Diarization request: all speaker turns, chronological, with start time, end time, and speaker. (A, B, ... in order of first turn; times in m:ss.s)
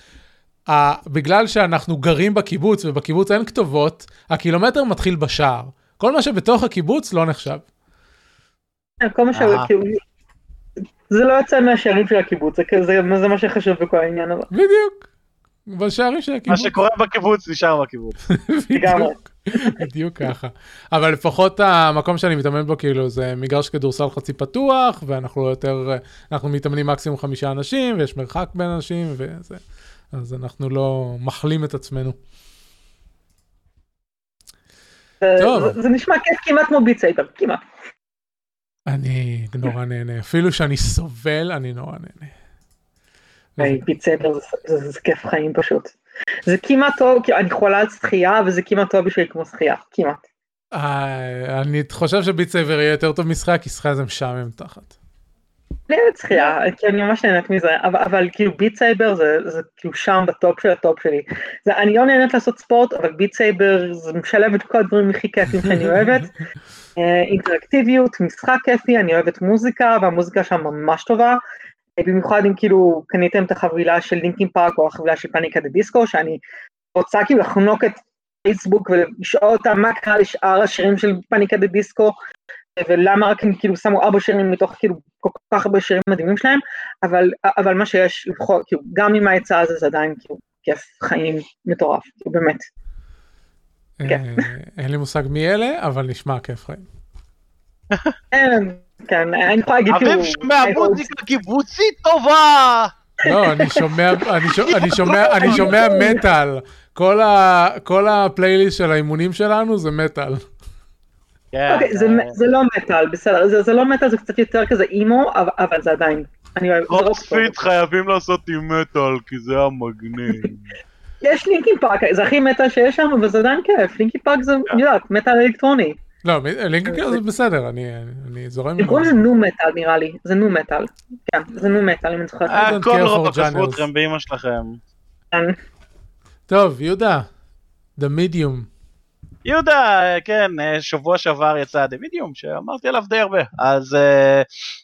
0:00.7-0:07.6 A
0:09.0-0:10.0 B
0:09.3-0:09.7 C
0:11.1-0:14.5 B
0:14.5-0:15.1 A
0:15.7-0:16.7 A
0:16.5-0:18.2 C
0:18.4-0:29.6 A
0:18.7-0:19.8 B
0:30.1-0:32.2 A
0:35.2-0:37.6 B
0:35.4-0:35.8 A
0:38.9-0:42.3 A
0:43.6-0:45.9 B
0:46.4-0:50.2 B
0:50.7-0:55.0 A
0:55.9-1:06.3 B
1:05.6-1:06.3 A
1:07.0-1:11.4 B
1:12.0-1:16.4 B
1:17.0-1:22.1 B
1:22.8-1:32.6 B
1:34.0-1:36.9 A
1:34.1-1:34.4 B
1:38.3-1:41.1 B
1:39.9-1:42.9 C
1:43.2-1:50.4 A
1:43.3-1:43.9 B
1:44.6-1:46.2 B
1:45.3-1:45.7 C
1:51.5-1:52.4 C
1:51.7-1:57.5 B
1:56.9-2:00.7 C
2:01.2-2:06.0 B
2:06.2-2:09.2 A
2:06.9-2:07.2 B
2:08.8-2:12.8 B
2:12.5-2:14.8 C
2:12.6-2:13.8 A
2:15.3-2:15.6 B
2:16.5-2:17.3 A
2:18.0-2:18.7 A
2:19.4-2:24.4 C